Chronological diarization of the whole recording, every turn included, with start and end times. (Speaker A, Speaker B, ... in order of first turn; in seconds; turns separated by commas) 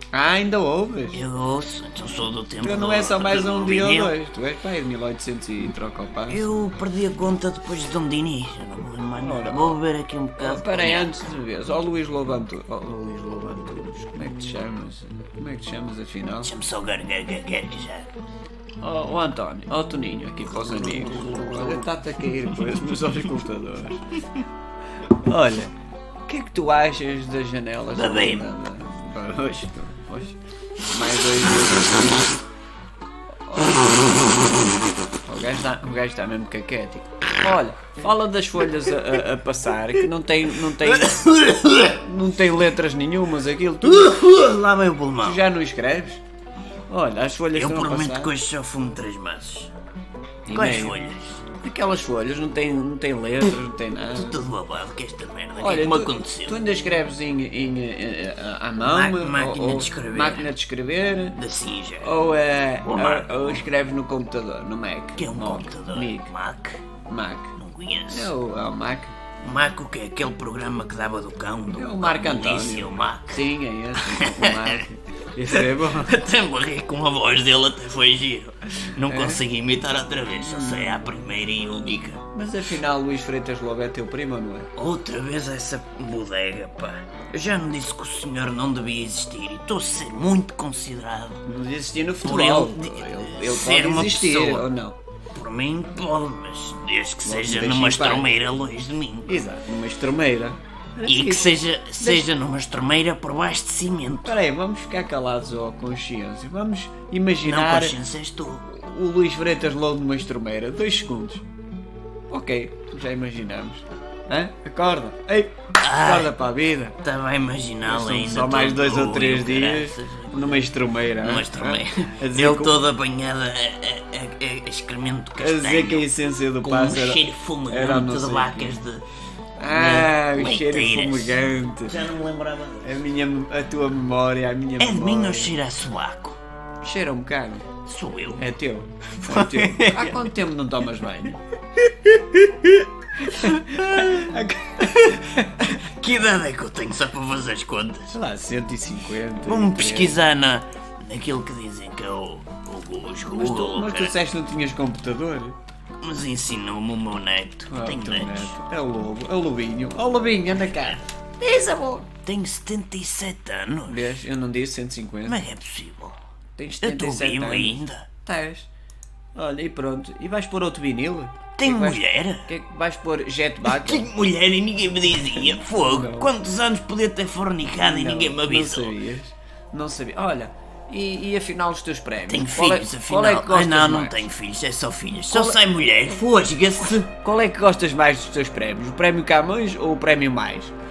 Speaker A: 0.1-1.2, Speaker B: 1.1-4.2, Speaker A: 2.6-6.5, Speaker B: 6.3-11.3, Speaker A: 9.2-9.8, Speaker A: 10.4-16.5, Speaker B: 16.4-18.1, Speaker A: 18.8-24.1, Speaker A: 25.1-25.7, Speaker A: 26.3-32.4, Speaker B: 27.9-28.5, Speaker A: 33.5-34.1, Speaker A: 35.2-44.2, Speaker B: 40.8-42.0, Speaker B: 43.8-45.5, Speaker A: 45.2-46.2, Speaker A: 46.9-48.3, Speaker B: 47.5-49.7, Speaker A: 50.5-51.0, Speaker B: 50.5-51.4, Speaker A: 51.5-54.4, Speaker B: 54.1-56.6, Speaker A: 55.6-61.4, Speaker B: 58.8-60.5, Speaker B: 61.4-62.2, Speaker A: 62.0-66.3, Speaker B: 62.8-63.6, Speaker B: 65.2-66.8, Speaker A: 67.0-67.6, Speaker B: 67.6-68.3, Speaker A: 68.1-69.1, Speaker B: 69.4-74.8, Speaker A: 71.7-76.2, Speaker B: 75.5-82.2, Speaker A: 79.1-79.4, Speaker A: 80.5-81.0, Speaker A: 82.3-84.7, Speaker B: 84.8-91.4, Speaker A: 91.5-95.0, Speaker B: 92.2-94.7, Speaker B: 95.3-99.3, Speaker A: 97.2-98.3, Speaker A: 99.3-102.3, Speaker B: 101.0-104.3, Speaker A: 104.2-108.0, Speaker B: 107.4-108.8, Speaker A: 108.7-111.4, Speaker A: 112.3-117.0, Speaker B: 115.8-116.3, Speaker B: 117.0-126.1, Speaker A: 117.8-122.8, Speaker A: 125.4-128.8, Speaker B: 126.6-129.1, Speaker A: 129.6-132.1, Speaker B: 129.7-133.0, Speaker A: 132.8-135.5, Speaker B: 134.8-136.4, Speaker A: 136.8-137.7, Speaker B: 137.8-138.4, Speaker A: 138.4-145.6, Speaker B: 139.2-140.2, Speaker B: 145.4-148.1, Speaker A: 148.1-150.2, Speaker B: 149.4-154.2, Speaker A: 153.3-155.6, Speaker B: 156.0-158.6, Speaker A: 157.7-162.1, Speaker B: 162.1-164.2, Speaker A: 163.9-165.4, Speaker B: 165.3-166.2, Speaker A: 166.6-168.7, Speaker B: 166.8-168.1, Speaker A: 169.3-174.1, Speaker B: 171.6-172.5, Speaker B: 173.6-179.0, Speaker A: 175.3-176.3, Speaker A: 177.8-184.2, Speaker B: 182.3-187.1, Speaker A: 185.3-185.6, Speaker A: 187.1-190.7